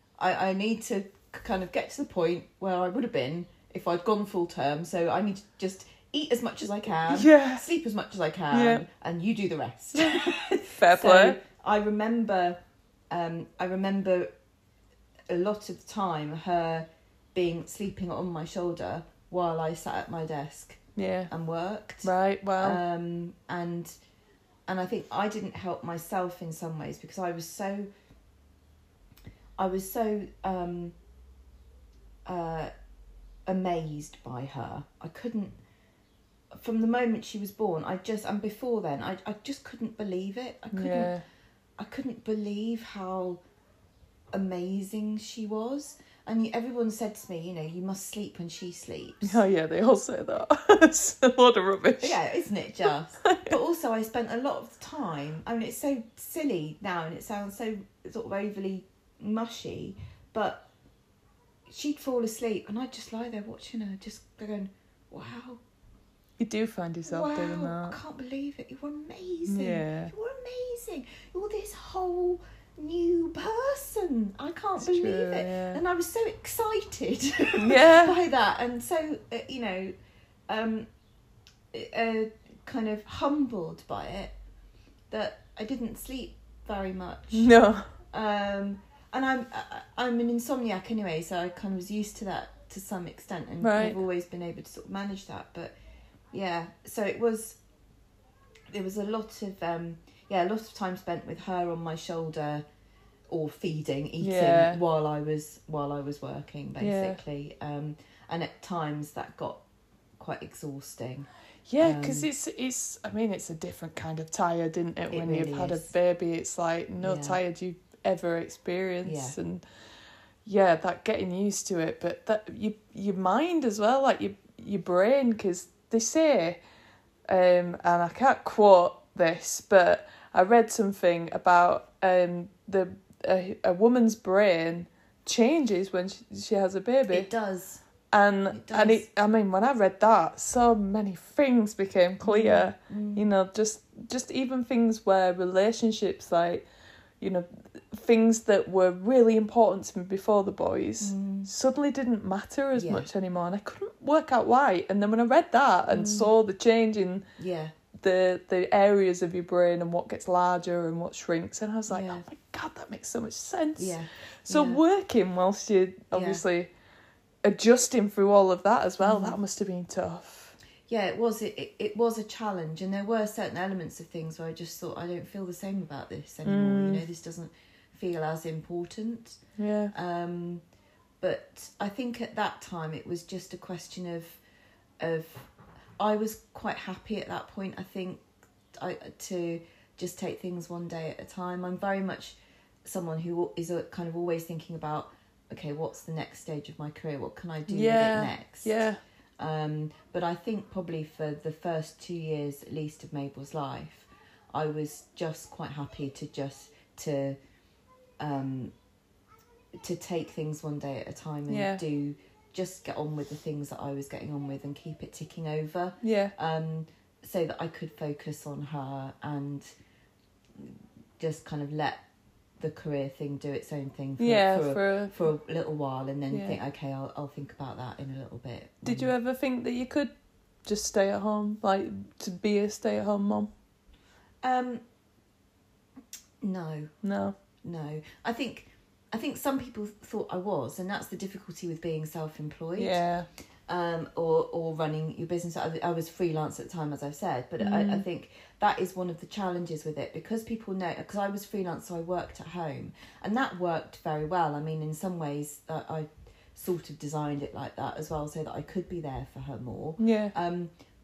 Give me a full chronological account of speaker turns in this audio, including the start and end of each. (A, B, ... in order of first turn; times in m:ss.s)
0:00.2-0:12.6 A
0:07.1-0:07.7 B
0:08.5-0:08.8 B
0:09.9-0:11.4 B
0:13.1-0:14.3 A
0:15.3-0:23.9 A
0:21.0-0:21.3 B
0:22.0-0:22.8 B
0:24.7-0:27.9 A
0:29.6-0:30.9 A
0:32.2-0:32.7 A
0:33.4-0:35.6 A
0:36.5-0:41.1 A
0:40.7-0:41.2 B
0:41.8-0:43.4 A
0:44.3-0:49.4 A
0:49.2-0:52.2 B
0:52.0-1:00.7 A
0:53.2-0:53.5 B
1:01.7-1:05.6 A
1:06.4-1:08.0 B
1:07.1-1:19.9 A
1:09.5-1:10.1 B
1:14.8-1:15.8 B
1:17.6-1:18.2 B
1:20.5-1:20.9 A
1:21.7-1:24.3 A
1:25.1-1:27.5 A
1:27.3-1:27.9 B
1:28.1-1:35.7 A
1:33.6-1:34.0 B
1:36.3-1:37.6 A
1:38.7-1:42.6 A
1:43.3-1:49.6 A
1:44.2-1:44.8 B
1:46.8-1:47.2 B
1:50.2-1:51.3 A
1:51.7-1:59.6 B
1:51.8-1:52.3 A
1:55.1-1:55.9 A
1:57.0-1:57.4 A
1:59.0-1:59.4 A
2:00.4-2:06.6 B
2:07.3-2:17.3 B
2:17.1-2:17.8 A
2:18.1-2:26.6 B
2:18.5-2:19.0 A
2:22.2-2:23.2 A
2:27.2-2:37.2 B
2:31.0-2:31.5 A
2:32.7-2:33.1 A
2:35.9-2:36.3 A
2:37.4-2:37.7 A
2:38.0-2:46.7 B
2:41.9-2:42.2 A
2:43.8-2:44.8 A
2:46.1-2:46.4 A
2:47.4-2:50.5 B
2:49.0-2:49.4 A
2:50.9-2:59.4 A
2:56.4-2:57.0 B
2:59.6-2:59.9 B
2:59.9-3:00.6 A
3:01.2-3:04.4 A
3:05.0-3:08.2 A
3:08.8-3:18.8 A
3:17.7-3:19.0 B
3:19.4-3:27.4 A
3:28.2-3:28.7 A
3:29.8-3:39.7 A
3:31.5-3:31.8 B
3:36.0-3:36.3 B
3:40.6-3:42.0 A
3:42.6-3:49.1 A
3:44.2-3:45.1 B
3:46.3-3:46.6 B
3:48.8-3:50.1 B
3:50.6-3:53.5 B
3:54.4-3:54.8 A
3:56.4-3:56.9 A
3:57.0-3:57.4 B
3:57.6-4:03.0 A
4:02.8-4:03.3 B
4:03.7-4:20.7 A
4:07.6-4:08.0 B
4:20.0-4:20.3 B